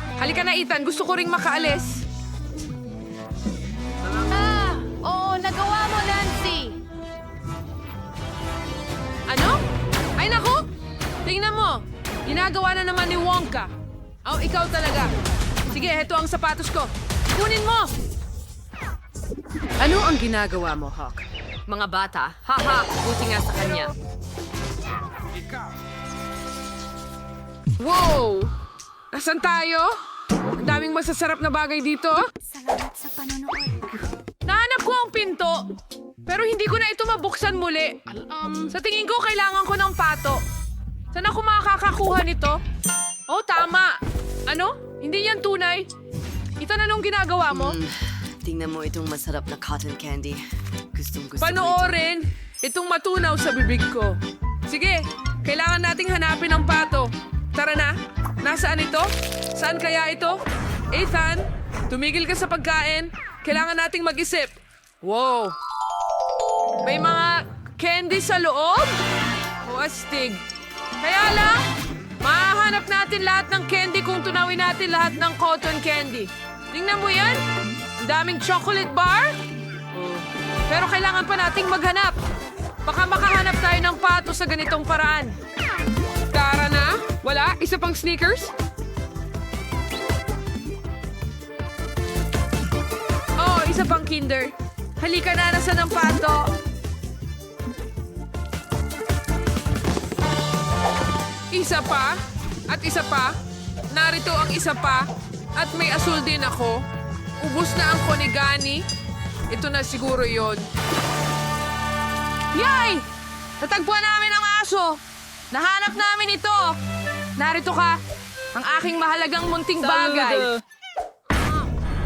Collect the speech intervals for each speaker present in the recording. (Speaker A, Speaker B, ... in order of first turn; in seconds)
Speaker A: 0.2-2.0, 6.0-6.3, 9.3-9.6, 10.2-10.6, 11.2-13.7, 14.2-15.1, 15.7-17.9, 27.8-28.5, 29.1-30.0, 30.6-32.2, 34.4-35.7, 36.2-38.0, 38.7-40.4, 41.1-42.6, 43.3-44.0, 44.5-45.9, 46.6-47.8, 51.4-60.4, 60.9-65.5, 66.8-69.0, 69.6-70.4, 71.0-71.7, 72.2-77.4, 78.0-79.3, 80.7-82.2, 82.8-85.3, 86.3-88.5, 93.4-96.5, 101.5-102.2, 102.7-103.3, 103.9-106.8, 107.4-108.8, 109.5-110.7, 112.5-113.0, 113.6-115.0, 115.5-116.8, 117.4-118.0, 118.5-120.5
Speaker B: 4.3-6.7, 19.8-23.9, 32.7-33.2, 119.8-120.5
Speaker C: 47.6-47.9, 48.4-50.4, 50.9-51.8